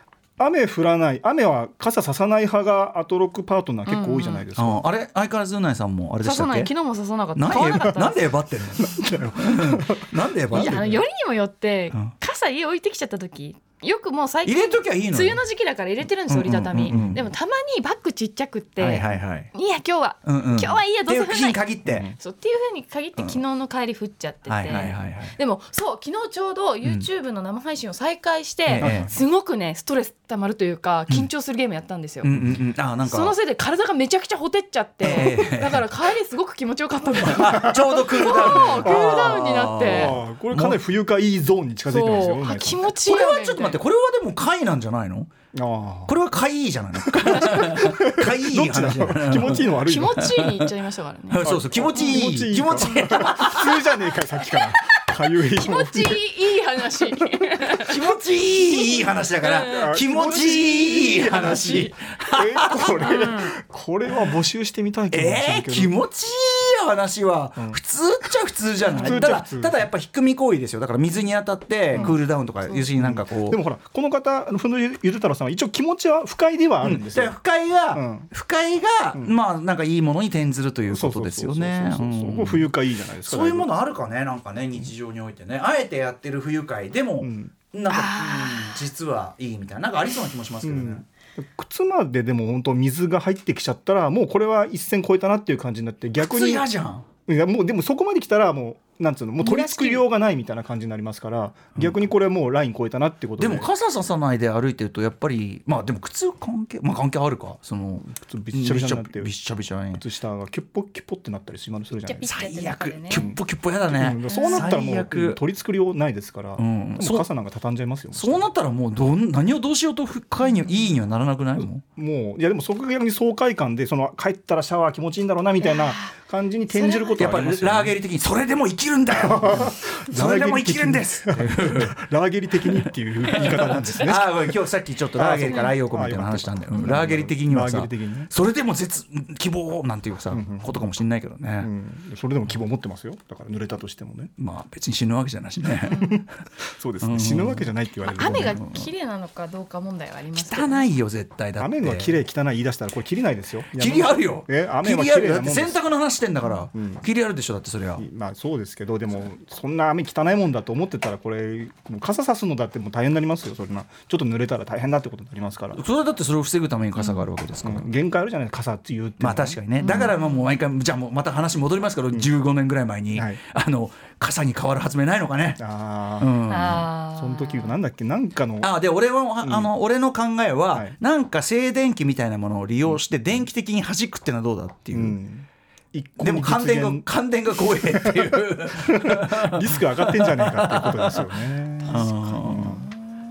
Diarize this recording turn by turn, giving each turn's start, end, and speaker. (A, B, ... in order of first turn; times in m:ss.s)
0:00.4-0:04.8 A
0:03.8-0:04.4 B
0:04.5-0:06.7 C
0:06.2-0:08.2 B
0:07.4-0:10.9 C
0:07.5-0:08.0 A
0:08.8-0:11.0 A
0:10.5-0:21.6 B
0:14.4-0:15.4 C
0:16.3-0:17.2 C
0:16.9-0:17.2 A
0:18.8-0:19.5 C
0:20.2-0:22.1 C
0:21.8-0:22.2 A
0:22.2-0:32.3 B
0:24.5-0:25.4 C
0:28.7-0:29.1 C
0:28.8-0:29.2 A
0:32.2-0:33.3 C
0:33.0-0:40.2 B
0:35.0-0:35.8 C
0:37.2-0:40.8 C
0:37.5-0:37.8 A
0:38.4-0:39.3 A
0:39.8-0:42.9 A
0:41.9-0:43.8 B
0:43.0-0:45.3 C
0:45.5-0:46.2 A
0:46.0-0:50.7 C
0:47.1-0:50.3 A
0:49.6-0:52.2 B
0:51.3-0:54.0 C
0:51.4-0:56.2 A
0:52.8-0:53.3 B
0:54.4-0:54.9 B
0:55.4-0:57.9 B
0:57.1-0:57.4 A
0:57.8-1:03.1 C
0:58.7-1:01.9 B
0:59.6-1:01.3 A
1:02.3-1:05.9 A
1:03.0-1:03.5 B
1:05.1-1:13.6 C
1:08.8-1:09.2 B
1:09.0-1:09.8 A
1:11.9-1:12.2 A
1:13.0-1:17.4 A
1:16.8-1:31.0 C
1:17.9-1:18.3 A
1:20.9-1:23.7 A
1:27.2-1:27.5 A
1:27.9-1:28.8 B
1:30.6-1:36.7 A
1:36.2-1:37.0 C
1:37.3-1:43.7 A
1:39.4-1:40.0 B
1:41.7-1:42.0 C
1:43.4-1:50.0 C
1:48.0-1:49.3 A
1:49.9-1:52.3 A
1:51.9-1:53.2 B
1:52.2-1:55.4 C
1:53.1-1:58.5 A
1:54.3-1:54.8 B
1:56.6-1:57.3 C
1:58.1-2:01.8 C
2:01.6-2:08.0 A
2:05.6-2:06.1 B
2:06.7-2:07.3 B
2:07.2-2:12.0 C
2:09.1-2:14.6 A
2:12.7-2:21.7 C
2:15.1-2:18.3 A
2:20.3-2:20.8 A
2:21.6-2:24.3 A
2:24.4-2:26.2 C
2:25.9-2:28.6 A
2:27.0-2:27.7 C
2:28.1-2:30.9 B
2:28.4-2:28.8 C
2:30.4-2:32.2 C
2:31.6-2:35.8 A
2:33.7-2:38.0 C
2:36.7-2:37.0 A
2:38.0-2:45.8 A
2:45.7-2:47.9 C
2:47.0-2:47.2 B
2:47.6-2:50.1 A
2:49.2-2:55.6 C
2:49.8-2:50.5 B
2:53.1-2:53.4 A
2:55.6-2:56.3 A
2:56.2-2:56.9 C
2:56.5-2:57.8 B
2:57.1-2:58.7 A
2:58.6-3:05.2 C
2:59.4-2:59.7 A
3:04.9-3:07.1 A
3:06.2-3:11.3 C
3:07.7-3:12.9 A
3:11.8-3:12.8 C